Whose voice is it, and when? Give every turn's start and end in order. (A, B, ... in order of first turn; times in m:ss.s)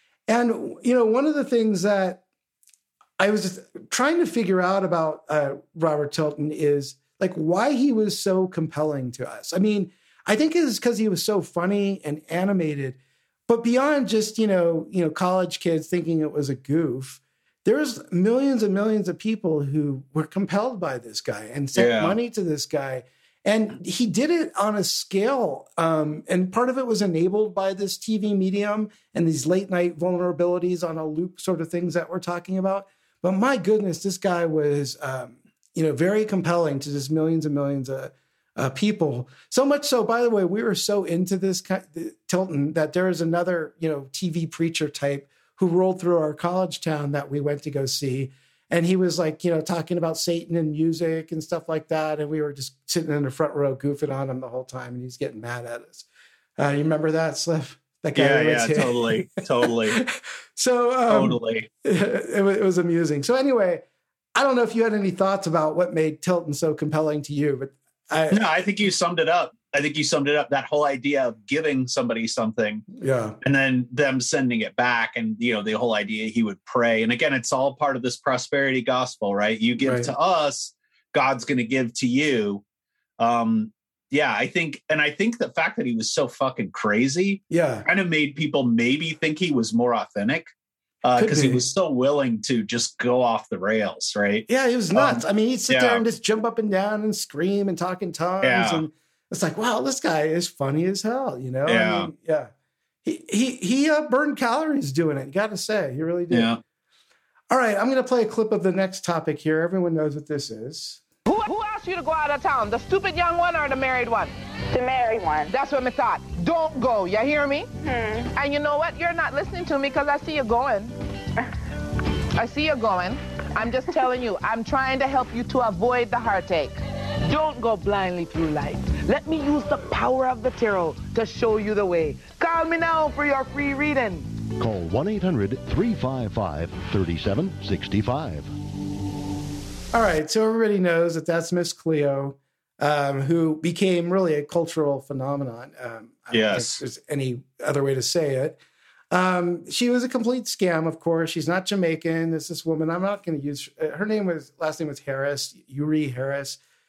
0:00.3-0:02.2 A
0:03.2-0:56.0 A
0:21.8-0:22.1 B
0:56.6-0:59.2 A
0:58.1-1:00.0 B
0:59.9-1:03.8 A
1:01.1-1:01.7 B
1:04.3-1:08.4 A
1:08.3-1:12.8 B
1:12.9-1:13.4 A
1:13.4-1:22.6 B
1:19.8-1:20.1 A
1:23.2-1:30.5 B
1:27.5-1:27.8 A
1:31.0-1:36.0 B
1:31.2-1:31.6 A
1:34.5-1:42.5 A
1:38.4-1:38.8 B
1:41.7-1:42.1 B
1:43.0-1:46.6 A
1:46.3-1:46.6 B
1:47.5-1:51.0 A
1:51.3-1:54.3 C
1:55.4-1:57.7 C
1:58.2-2:00.9 C
2:02.4-2:14.3 C
2:14.6-2:18.5 D
2:19.9-2:28.6 A
2:26.3-2:26.8 B
2:29.1-2:36.6 A